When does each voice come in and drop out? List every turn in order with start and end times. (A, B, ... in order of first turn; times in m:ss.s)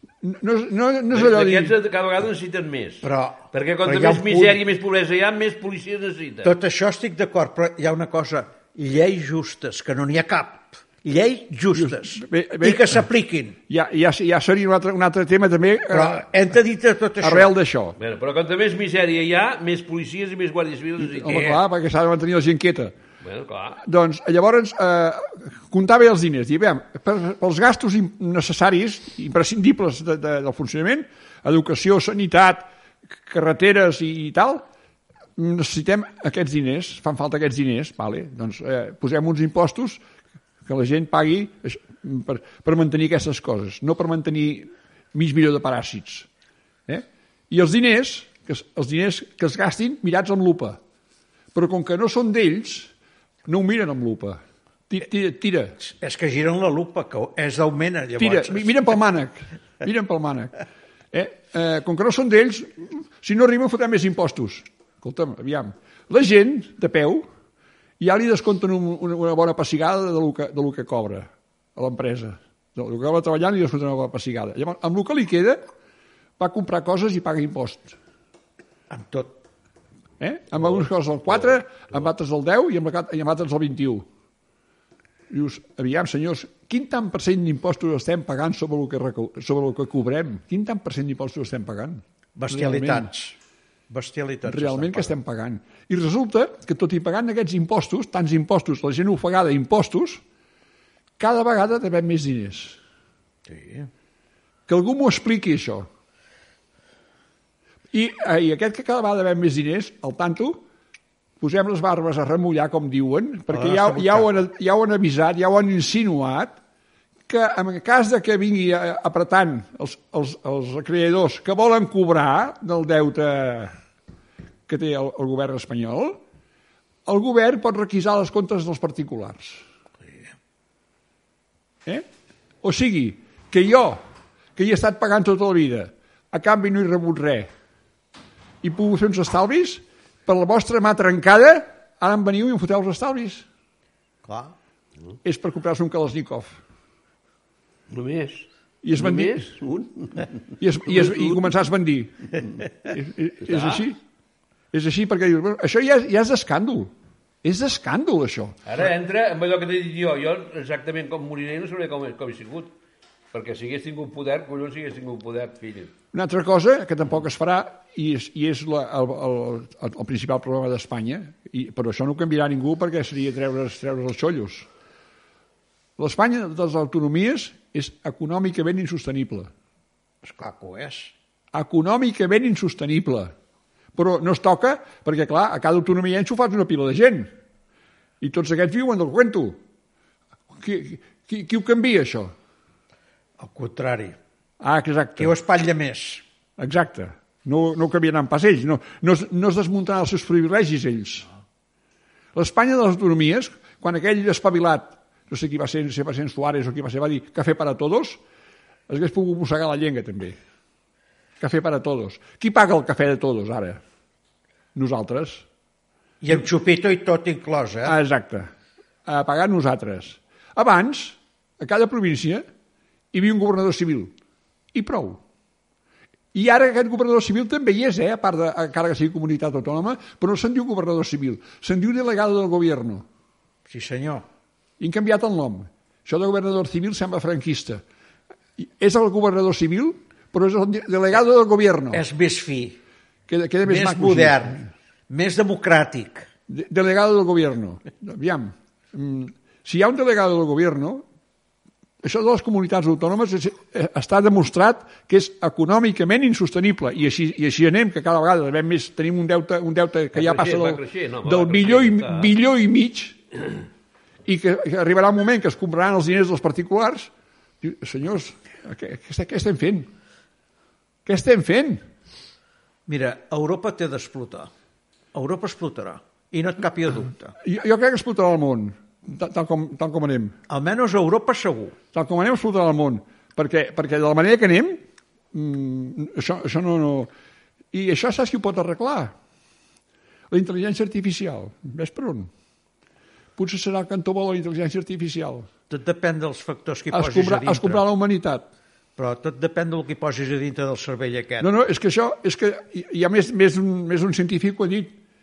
0:00.2-0:01.7 A
0:01.1-0:06.5 B
0:03.0-0:04.6 C
0:06.4-0:13.6 C
0:11.7-0:13.0 A
0:13.7-0:16.3 A
0:15.9-0:17.5 C
0:17.2-0:18.0 A
0:18.0-0:21.6 B
0:21.0-0:22.9 A
0:23.2-0:23.8 B
0:23.8-0:34.6 A
0:35.4-0:40.0 A
0:40.6-0:46.3 A
0:46.9-0:50.8 A
0:51.5-0:52.9 A
0:53.4-0:55.8 A
0:55.8-0:58.7 C
0:58.2-1:00.5 A
1:01.1-1:07.2 A
1:08.0-1:15.6 A
1:16.4-1:18.0 A
1:18.9-1:19.3 C
1:20.2-1:24.0 A
1:25.3-1:33.1 A
1:32.4-1:33.4 C
1:33.9-1:35.2 C
1:34.4-1:40.2 A
1:41.2-1:42.8 A
1:43.4-1:43.9 C
1:44.7-1:45.9 A
1:47.9-1:50.6 A
1:51.4-1:56.6 A
1:53.5-1:54.3 C
1:57.3-2:03.8 A
2:04.7-2:06.2 A
2:07.0-2:09.6 A
2:12.6-2:14.0 A
2:14.6-2:17.5 A
2:18.6-2:23.4 A
2:24.2-2:24.5 C
2:25.2-2:26.6 A
2:27.9-2:30.3 B
2:28.8-2:29.5 A
2:30.6-2:34.0 A
2:30.9-2:31.4 B
2:33.4-2:33.8 B
2:34.7-2:36.9 A
2:37.4-2:38.6 A
2:38.6-2:42.7 B
2:43.3-2:45.9 B
2:46.1-2:54.7 A
2:56.0-2:59.5 A
3:00.2-3:01.1 C
3:01.5-3:03.3 A
3:04.0-3:07.3 A
3:08.2-3:09.6 A
3:10.5-3:12.3 A
3:13.4-3:14.2 C
3:14.6-3:15.3 A
3:15.2-3:16.2 C
3:16.6-3:21.3 A
3:22.3-3:28.2 A
3:28.9-3:30.4 A
3:31.4-3:33.8 A
3:34.7-3:35.4 A
3:36.2-3:37.9 C
3:37.8-3:38.5 A
3:39.1-3:42.4 A
3:43.1-3:44.1 A
3:44.7-3:45.2 A
3:46.3-3:53.0 A
3:53.7-3:54.2 C
3:54.8-3:57.8 A
3:58.6-4:02.0 A
4:01.9-4:02.8 C
4:03.3-4:04.7 A
4:03.6-4:04.6 C
4:05.1-4:06.3 C
4:06.5-4:11.0 A
4:12.0-4:23.2 A
4:20.1-4:22.3 B
4:24.2-4:27.1 A
4:27.6-4:29.9 A
4:31.0-4:31.8 A
4:32.9-4:34.5 C
4:35.1-4:37.3 C
4:37.4-4:40.4 A
4:40.5-4:41.7 C
4:41.9-4:44.8 A
4:45.3-4:47.1 A
4:47.7-4:49.1 A
4:50.3-4:52.3 A
4:53.4-4:55.5 A
4:55.7-4:57.8 C
4:56.9-4:58.5 A
4:59.0-5:01.5 C
5:01.4-5:05.0 A